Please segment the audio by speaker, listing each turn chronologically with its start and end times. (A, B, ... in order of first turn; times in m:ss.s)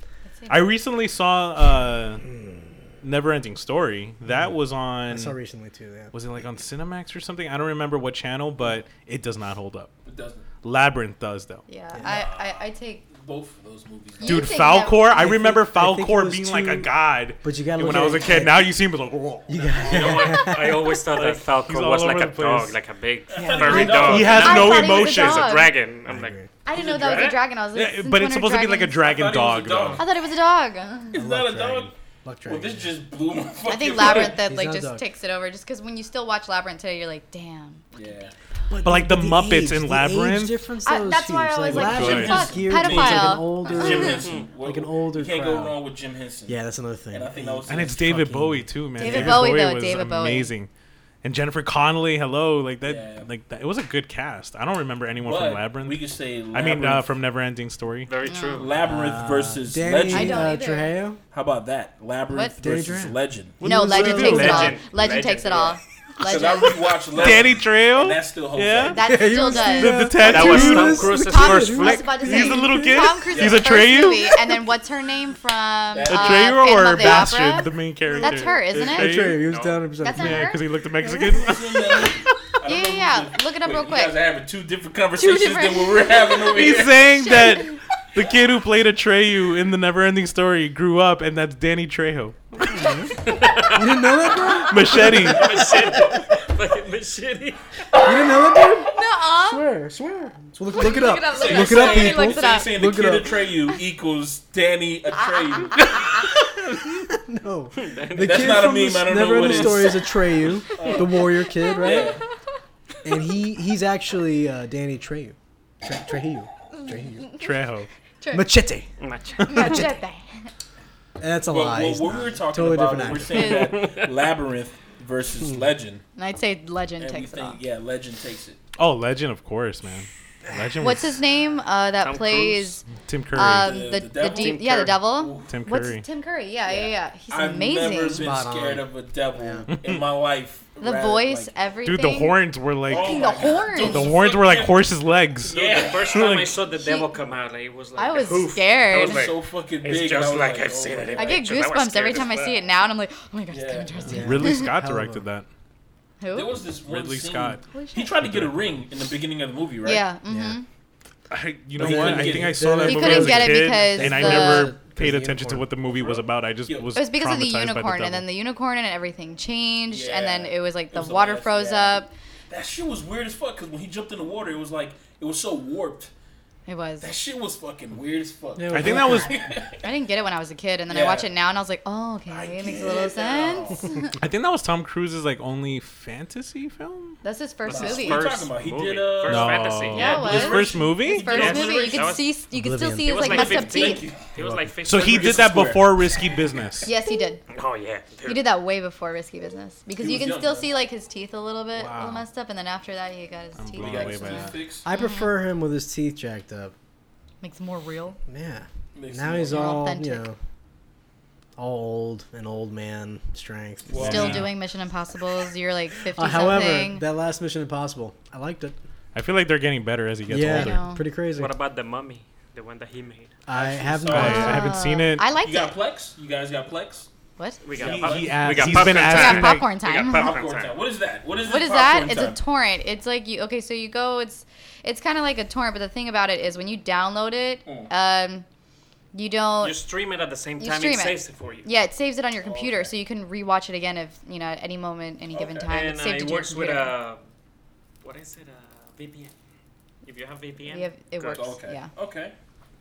0:00.3-0:00.7 A
0:00.5-0:02.3 B
0:02.3-0:02.8 C
0:03.0-0:05.4 B
0:05.1-0:06.1 C
0:06.1-0:10.0 B
0:10.0-0:10.5 D
0:10.6-0:11.6 B
0:11.7-0:13.0 A
0:12.0-0:14.6 D
0:14.2-0:15.2 A
0:14.2-0:19.7 B
0:15.1-0:18.8 C
0:19.5-0:20.8 C
0:19.8-0:27.4 E
0:19.9-0:20.2 D
0:21.1-0:22.8 B
0:23.3-0:24.9 D
0:23.4-0:24.2 C
0:23.6-0:25.6 B
0:24.3-0:25.7 A
0:26.1-0:26.5 C
0:26.6-0:29.0 A
0:26.7-0:27.4 D
0:27.7-0:30.0 B
0:29.0-0:30.0 D
0:30.0-0:31.2 A
0:31.1-0:31.9 D
0:31.1-0:32.9 C
0:32.5-0:34.4 D
0:33.7-0:37.9 A
0:34.0-0:35.1 C
0:37.9-0:38.3 D
0:38.7-0:45.8 C
0:38.8-0:40.6 B
0:40.8-0:44.2 A
0:41.7-0:46.6 D
0:41.8-0:42.4 B
0:44.1-0:44.5 E
0:46.5-0:49.4 C
0:47.1-0:48.1 D
0:47.7-0:50.7 B
0:49.0-0:50.5 A
0:51.2-0:58.1 B
0:52.8-0:53.3 D
0:55.2-0:57.1 D
0:58.1-0:58.7 E
0:58.3-0:58.7 A
0:58.6-1:00.6 D
0:58.8-1:01.2 C
1:00.1-1:00.9 A
1:01.3-1:03.6 D
1:02.6-1:04.8 C
1:03.6-1:04.8 B
1:03.6-1:07.0 A
1:04.0-1:05.8 E
1:06.2-1:09.0 D
1:07.1-1:14.4 B
1:08.8-1:19.2 A
1:09.0-1:13.0 C
1:10.2-1:12.0 E
1:13.3-1:13.8 D
1:15.9-1:16.6 D
1:16.1-1:19.4 B
1:18.8-1:20.5 C
1:19.4-1:19.9 E
1:20.0-1:20.7 A
1:20.1-1:22.1 B
1:21.2-1:27.2 D
1:22.1-1:24.2 A
1:25.2-1:27.8 A
1:26.5-1:32.6 B
1:32.6-1:36.2 C
1:33.2-1:34.3 E
1:34.7-1:35.5 B
1:34.9-1:37.6 E
1:35.5-1:35.8 D
1:38.0-1:43.4 C
1:38.9-1:39.6 A
1:40.7-1:42.7 A
1:41.3-1:46.3 D
1:45.1-1:46.3 A
1:47.1-1:52.2 C
1:47.8-1:48.7 E
1:48.2-1:50.1 D
1:50.7-1:51.2 D
1:51.6-1:52.0 A
1:51.8-1:52.2 D
1:53.0-1:57.3 C
1:56.8-1:57.5 A
1:57.3-1:57.9 B
1:58.2-1:58.5 A
1:58.3-1:58.9 C
1:59.0-1:59.8 E
1:59.4-2:00.5 A
1:59.5-1:59.9 C
2:01.2-2:03.6 C
2:01.5-2:06.0 D
2:03.3-2:03.7 A
2:03.5-2:04.1 E
2:06.2-2:07.6 A
2:07.0-2:08.6 D
2:08.8-2:11.2 B
2:10.5-2:10.8 C
2:10.8-2:18.3 A
2:12.0-2:12.8 E
2:13.0-2:13.8 B
2:13.6-2:15.6 D
2:14.2-2:14.9 E
2:15.5-2:16.0 B
2:16.7-2:21.5 D
2:18.1-2:19.7 C
2:19.7-2:20.0 B
2:20.8-2:24.1 A
2:21.8-2:26.6 B
2:22.9-2:24.9 D
2:25.4-2:26.4 D
2:25.5-2:32.6 E
2:26.8-2:27.1 A
2:28.0-2:29.3 A
2:28.9-2:31.5 D
2:31.2-2:34.7 A
2:33.5-2:34.1 D
2:34.0-2:35.5 B
2:34.1-2:35.2 C
2:36.2-2:36.6 A
2:36.3-2:40.0 D
2:36.8-2:37.6 B
2:37.7-2:38.1 A
2:38.2-2:38.6 B
2:39.8-2:40.7 A
2:40.3-2:40.6 C
2:41.3-2:48.3 B
2:41.8-2:42.7 D
2:41.8-2:45.7 C
2:42.8-2:44.7 A
2:45.9-2:46.9 D
2:47.0-2:52.1 A
2:49.9-2:56.1 D
2:56.7-2:57.1 A
2:57.0-2:59.8 D
2:58.6-2:59.3 C
2:58.7-2:59.4 B
2:59.8-3:04.1 A
3:00.9-3:01.3 D
3:02.3-3:03.9 D
3:04.2-3:07.2 B
3:07.2-3:08.3 A
3:07.6-3:10.2 E
3:07.7-3:12.2 D
3:09.3-3:11.4 B
3:09.9-3:14.1 A
3:11.3-3:12.3 E
3:12.5-3:13.4 C
3:13.0-3:15.4 E
3:13.3-3:14.3 D
3:14.4-3:14.7 C
3:14.8-3:16.9 B
3:14.9-3:16.4 D
3:16.8-3:17.4 A
3:17.5-3:18.4 E
3:18.2-3:25.3 A
3:20.0-3:20.7 D
3:21.7-3:22.3 B
3:23.6-3:24.6 B
3:23.8-3:24.8 D
3:24.8-3:26.7 C
3:27.4-3:28.2 A
3:28.3-3:30.4 C
3:29.0-3:29.8 D
3:29.5-3:30.3 A
3:31.6-3:34.4 C
3:33.9-3:34.5 D
3:34.0-3:34.5 B
3:34.0-3:37.0 A
3:36.1-3:38.8 C
3:39.2-3:40.8 B
3:40.3-3:41.5 C
3:40.4-3:41.0 A
3:41.4-3:43.4 E
3:43.5-3:44.6 C
3:43.5-3:44.7 D
3:44.1-3:45.4 B
3:44.1-3:45.7 A
3:45.4-3:47.1 D
3:47.4-3:47.6 A
3:47.6-3:50.8 E
3:47.8-3:49.1 D
3:47.8-3:49.8 B
3:49.0-3:50.3 A
3:50.0-3:52.4 D
3:51.5-3:58.5 A
3:57.7-3:57.9 D
3:59.1-3:59.8 A
3:59.6-4:01.7 E
4:00.6-4:06.9 A
4:02.4-4:02.9 D
4:05.3-4:05.7 D
4:05.7-4:07.2 E
4:08.0-4:09.3 E
4:10.0-4:11.4 E
4:10.7-4:11.9 A
4:11.2-4:12.3 D